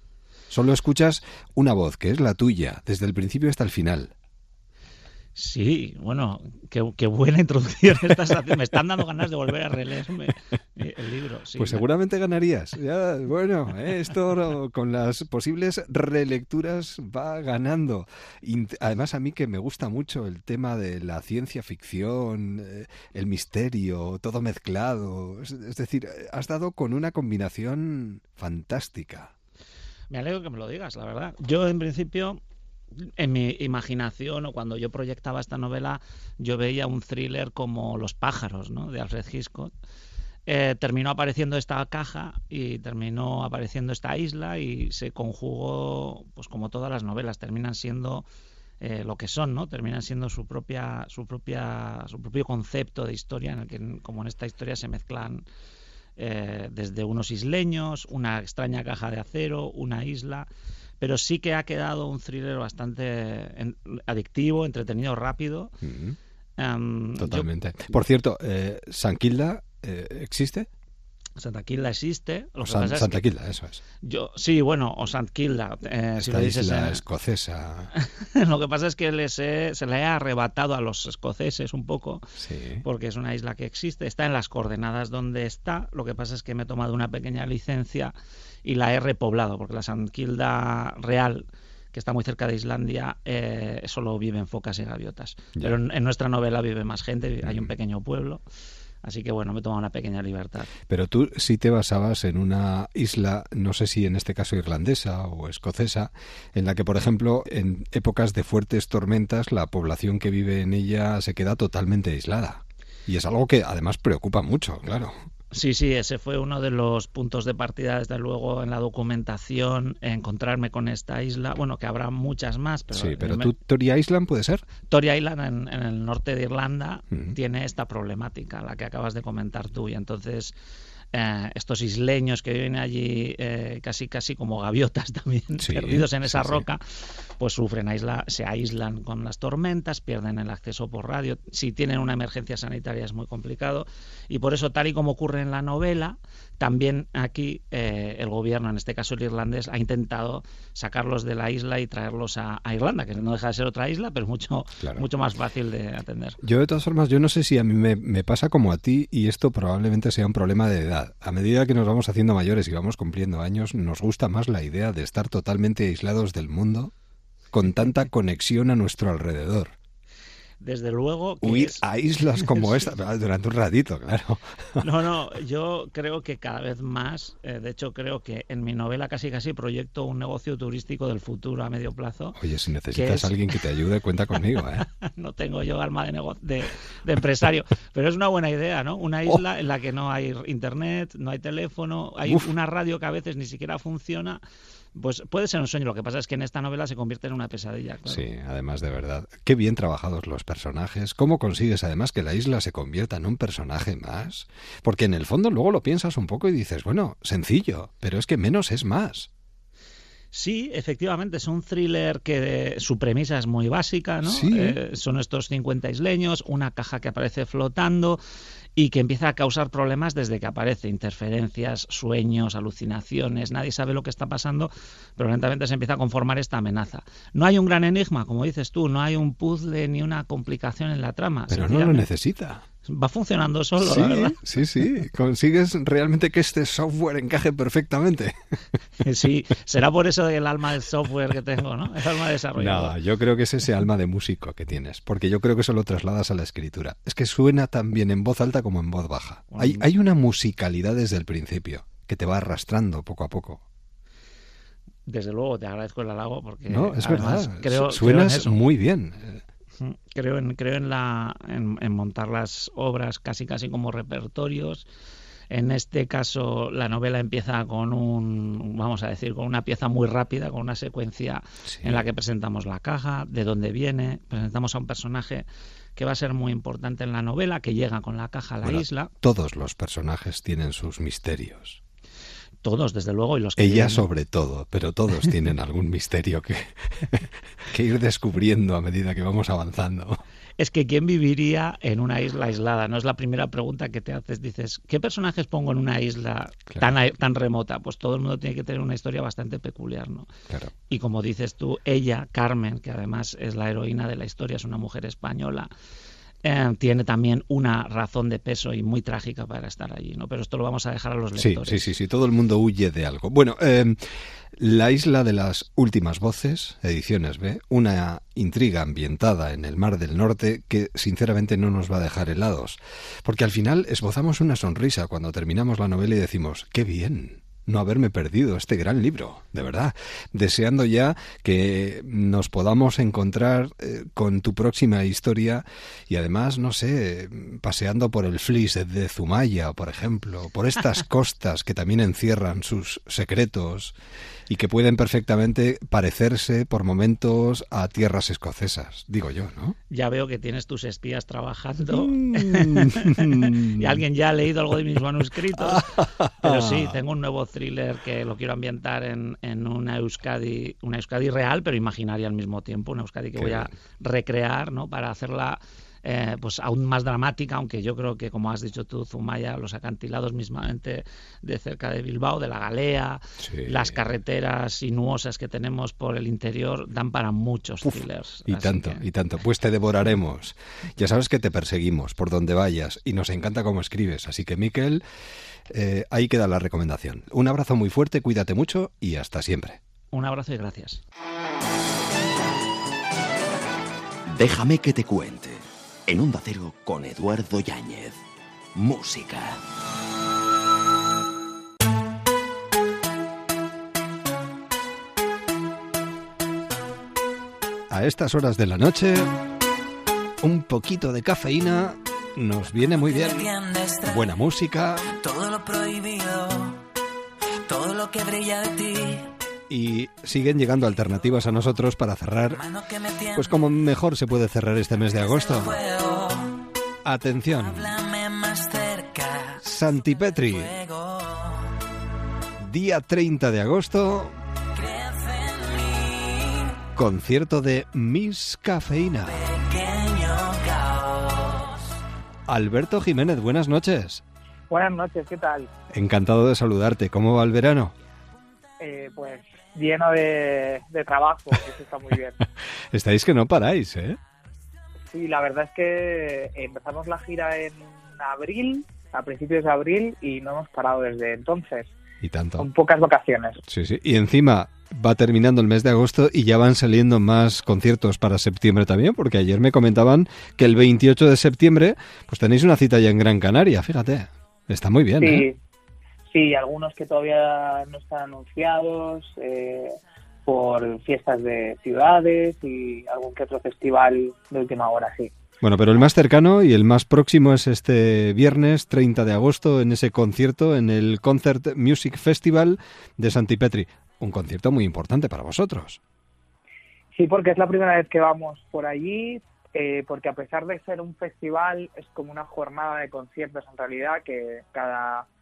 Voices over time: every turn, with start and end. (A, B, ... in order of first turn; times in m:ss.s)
0:00.5-0:04.1 A
0:05.4-0:11.8 B
0:11.6-0:29.3 A
0:30.1-0:32.4 B
0:33.0-0:39.7 B
0:40.5-0:48.3 B
0:48.8-0:55.4 B
0:56.2-1:00.5 B
1:01.0-1:05.7 B
1:05.8-1:06.2 A
1:06.6-1:07.5 B
1:07.2-1:10.7 A
1:11.4-1:13.2 B
1:12.6-1:13.8 A
1:14.0-1:17.0 B
1:16.2-1:17.9 A
1:17.9-1:22.2 B
1:22.4-1:22.8 A
1:22.8-1:38.4 B
1:37.4-1:37.7 A
1:39.0-1:40.7 B
1:40.9-1:55.1 A
1:55.5-2:03.5 B
2:02.9-2:04.7 A
2:04.9-2:10.5 B
2:07.1-2:07.4 A
2:11.1-2:16.8 B
2:15.6-2:16.6 A
2:17.4-2:36.4 B
2:34.8-2:35.1 A
2:36.4-2:46.9 A
2:47.5-2:49.7 A
2:47.7-2:47.9 B
2:50.6-2:52.8 B
2:51.4-2:54.8 A
2:54.8-3:02.4 B
3:02.4-3:04.8 A
3:02.9-3:03.6 B
3:05.0-3:14.4 B
3:12.2-3:12.5 A
3:14.9-3:18.2 B
3:18.1-3:29.3 A
3:30.3-3:38.2 B
3:34.2-3:34.8 A
3:38.8-3:52.1 B
3:51.5-3:52.6 A
3:52.8-3:54.6 B
3:53.8-3:58.4 A
3:59.0-4:03.0 B
4:02.6-4:13.6 A
4:09.5-4:09.8 B
4:15.0-4:18.6 B
4:16.7-4:19.4 A
4:19.8-4:24.8 B
4:25.5-4:39.1 B
4:31.7-4:32.1 A
4:38.6-4:41.8 A
4:42.6-4:44.1 B
4:43.6-4:50.2 A
4:50.6-5:00.3 B
5:00.9-5:05.7 B
5:06.4-5:11.9 B
5:11.4-5:14.0 A
5:14.6-5:43.9 A
5:44.5-5:49.8 A
5:49.9-5:55.9 B
5:51.9-5:54.0 A
5:55.5-5:56.9 A
5:56.4-6:19.0 B
6:03.4-6:03.7 A
6:13.4-6:14.0 A
6:17.8-6:25.0 A
6:25.7-6:29.8 A
6:30.1-6:31.0 B
6:34.3-6:38.2 C
6:38.7-6:39.6 C
6:47.9-6:49.3 A
6:50.4-6:53.5 A
6:52.9-6:54.3 D
6:54.0-6:55.0 A
6:55.0-6:56.8 D
6:57.7-6:59.3 D
6:59.7-7:02.6 A
7:02.5-7:03.7 D
7:03.3-7:05.7 A
7:05.2-7:06.6 D
7:07.0-7:07.9 A
7:07.6-7:09.6 D
7:09.6-7:10.7 A
7:10.2-7:11.7 D
7:12.6-7:14.3 A
7:14.7-7:16.8 D
7:17.0-7:19.5 A
7:19.3-7:21.8 D
7:22.5-7:24.2 A
7:24.7-7:25.7 E
7:25.9-7:27.9 A
7:28.8-7:32.4 E
7:32.9-7:34.2 A
7:35.1-7:41.9 E
7:42.2-7:42.7 A
7:42.6-7:43.6 E
7:43.7-7:55.4 A
7:55.2-7:55.6 E
7:56.3-8:05.3 E
8:05.6-8:16.0 A
8:17.1-8:25.2 E